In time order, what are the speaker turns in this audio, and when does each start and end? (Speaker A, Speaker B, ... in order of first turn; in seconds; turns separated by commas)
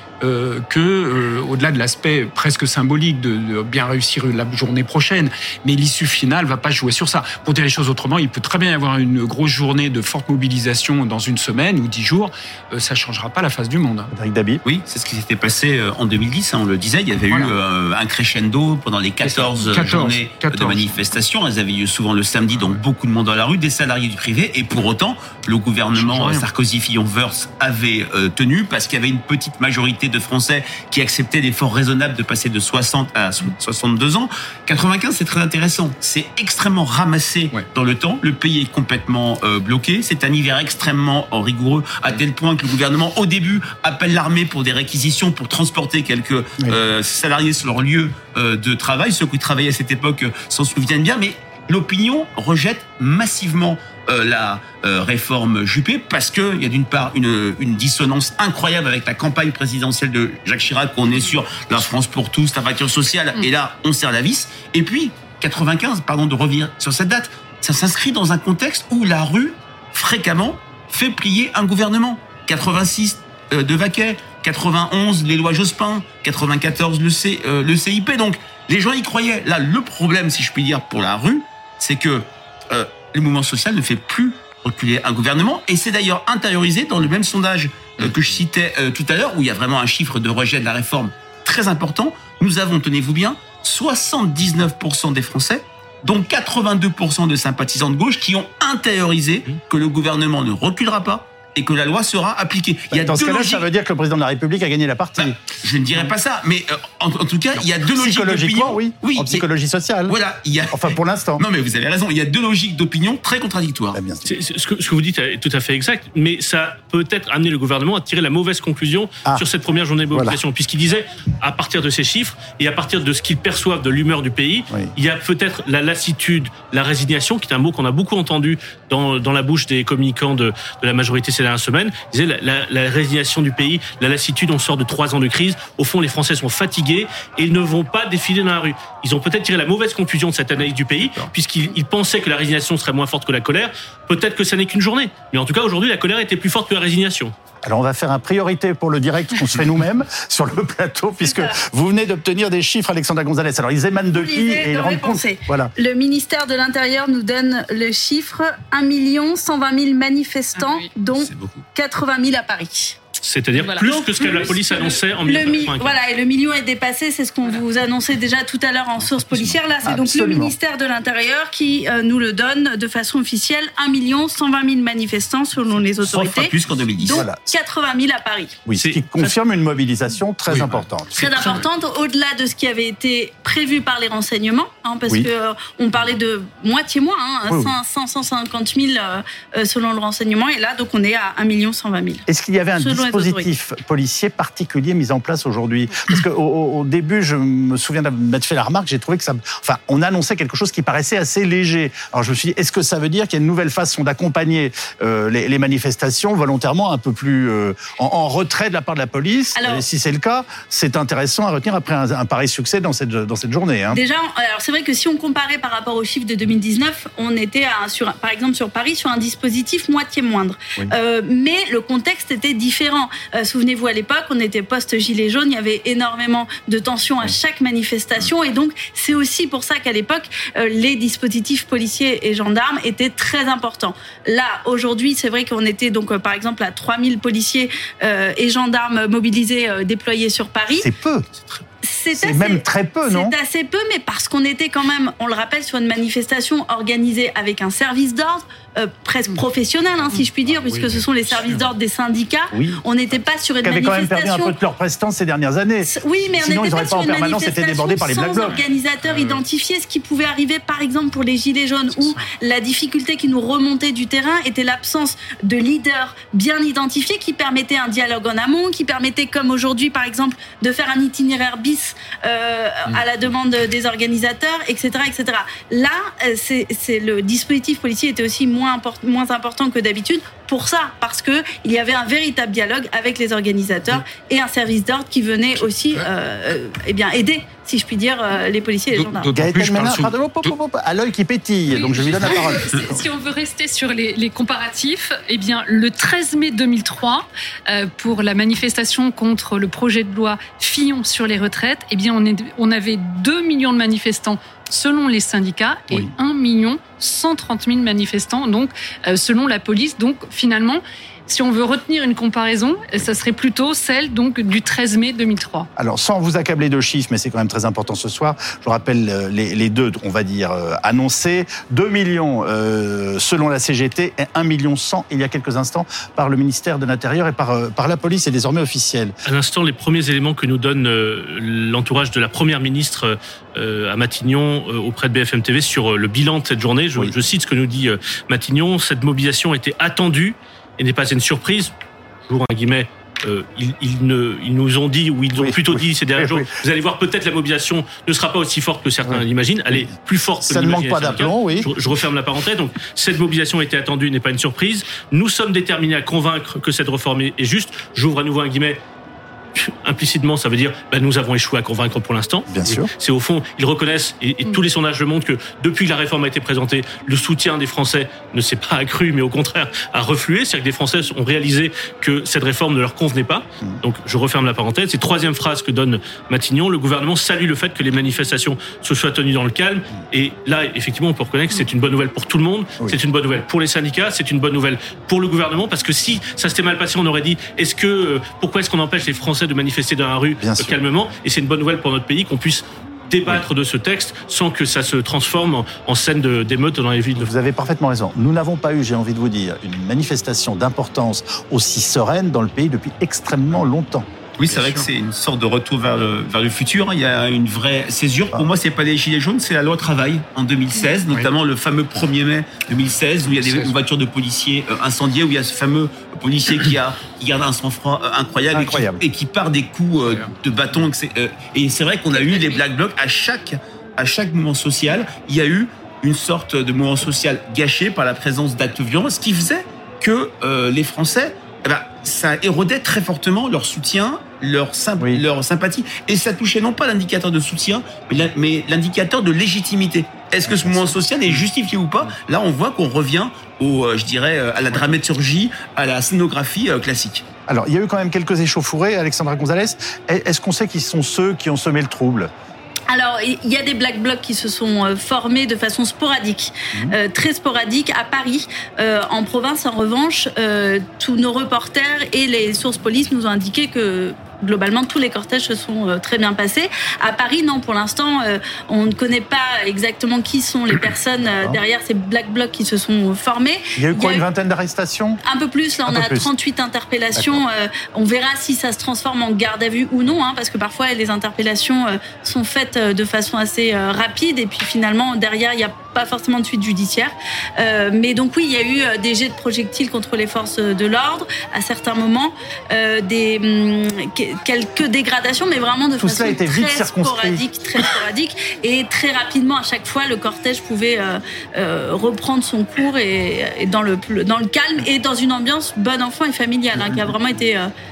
Speaker A: 0.2-14.1, Speaker B: 14.1-14.6, Speaker C: 14.6-103.7, Speaker A: 19.2-20.9, Speaker A: 22.5-22.8, Speaker A: 25.9-26.5, Speaker B: 102.9-105.4, Speaker C: 105.2-109.5, Speaker B: 107.6-110.2, Speaker C: 110.1-114.0, Speaker B: 110.7-111.4, Speaker B: 113.9-114.3, Speaker D: 114.2-147.3, Speaker B: 120.1-120.4, Speaker B: 147.7-155.7, Speaker E: 154.1-163.0, Speaker F: 160.6-160.9, Speaker D: 163.2-166.0, Speaker F: 163.6-165.1, Speaker E: 165.3-178.6, Speaker B: 169.1-170.5, Speaker C: 176.0-177.2, Speaker B: 177.1-177.4, Speaker B: 178.7-181.6, Speaker D: 178.8-179.3, Speaker A: 180.5-180.8, Speaker E: 181.1-192.3, Speaker B: 187.5-187.7, Speaker B: 192.3-214.0, Speaker E: 192.8-193.5, Speaker E: 209.6-209.8, Speaker E: 213.9-240.9, Speaker B: 240.8-241.4, Speaker E: 241.8-254.6, Speaker B: 242.1-243.3, Speaker A: 250.1-251.7, Speaker B: 252.5-252.8, Speaker B: 253.6-258.6, Speaker E: 255.9-289.3, Speaker A: 258.5-259.4, Speaker A: 285.6-286.1, Speaker A: 288.9-290.5, Speaker B: 289.3-292.9, Speaker F: 291.7-315.7, Speaker B: 315.8-329.1, Speaker D: 329.3-341.7, Speaker D: 342.3-358.8, Speaker B: 345.4-346.5, Speaker B: 349.0-349.9, Speaker B: 350.4-351.7, Speaker D: 359.6-397.3, Speaker B: 362.5-362.9, Speaker B: 390.4-390.8, Speaker B: 397.2-404.1, Speaker C: 404.4-447.2, Speaker A: 404.5-404.9, Speaker A: 413.3-413.8, Speaker B: 418.5-419.0, Speaker A: 420.0-420.4, Speaker E: 422.2-422.6, Speaker B: 440.5-441.4, Speaker B: 447.5-452.3, Speaker E: 452.9-474.2, Speaker B: 471.3-471.6, Speaker B: 473.8-475.2, Speaker E: 475.3-507.7, Speaker B: 475.8-476.3, Speaker B: 477.2-477.4, Speaker B: 496.0-497.4, Speaker B: 506.7-507.1